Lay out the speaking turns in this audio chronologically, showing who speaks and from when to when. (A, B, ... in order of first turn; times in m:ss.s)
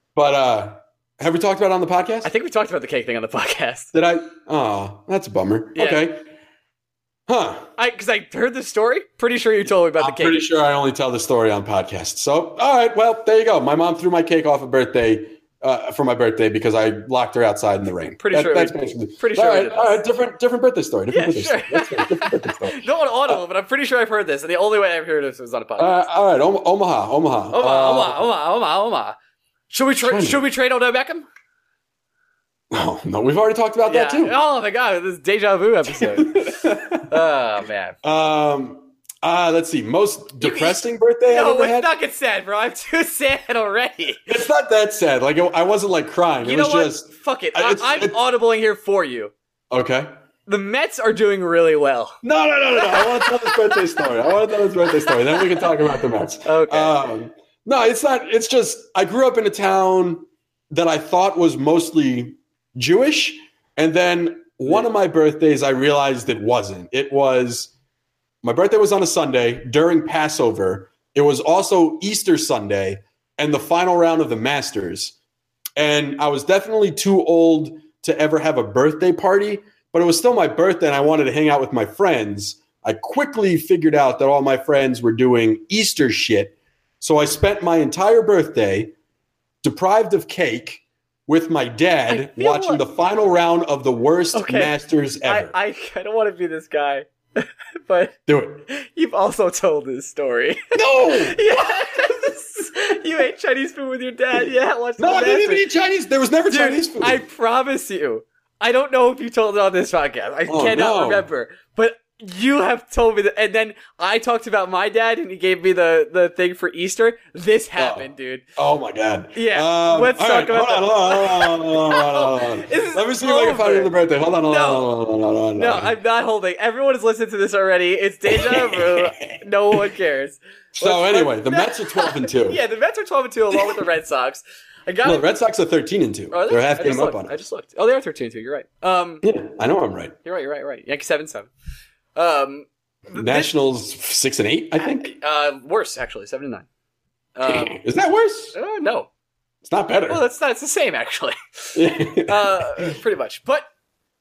0:00.2-0:02.3 A
0:02.2-0:03.9 B
0:03.9-0:06.2 A
0:05.8-0:06.0 B
0:07.3-0:07.7 A
0:07.8-0:10.4 B
0:10.0-0:23.4 A
0:18.2-0:20.0 B
0:21.1-0:26.0 B
0:25.8-0:28.3 A
0:27.5-0:29.2 B
0:29.7-0:31.3 B
0:30.0-0:30.4 A
0:32.7-0:34.4 A
0:33.8-0:38.0 B
0:36.0-0:37.1 A
0:38.0-0:41.9 A
0:40.4-0:44.3 B
0:44.3-0:48.2 A
0:46.4-0:49.3 B
0:49.7-0:50.1 A
0:50.5-0:52.2 B
0:52.2-1:07.7 A
0:52.8-0:54.1 B
0:54.8-0:55.7 B
0:56.4-0:57.0 B
1:08.4-1:15.1 A
1:15.8-1:28.9 A
1:29.6-1:35.5 A
1:32.1-1:32.8 B
1:34.3-1:34.7 B
1:35.2-1:45.6 B
1:38.3-1:38.7 A
1:40.7-1:41.4 A
1:45.0-1:47.2 A
1:46.5-1:58.4 B
1:50.5-1:51.3 A
1:57.8-1:58.1 A
1:58.6-2:05.9 A
1:59.3-2:03.9 B
2:04.5-2:04.9 B
2:05.6-2:15.2 B
2:08.3-2:09.8 A
2:10.7-2:12.6 A
2:13.5-2:13.8 A
2:15.0-2:17.4 A
2:16.3-2:19.3 B
2:19.2-2:20.2 A
2:20.2-2:21.5 B
2:22.2-2:23.5 B
2:23.2-2:25.1 A
2:24.8-2:26.7 B
2:27.4-2:27.8 B
2:27.5-2:28.6 A
2:28.5-2:29.1 B
2:29.6-2:30.2 A
2:30.1-2:33.7 B
2:31.8-2:32.9 A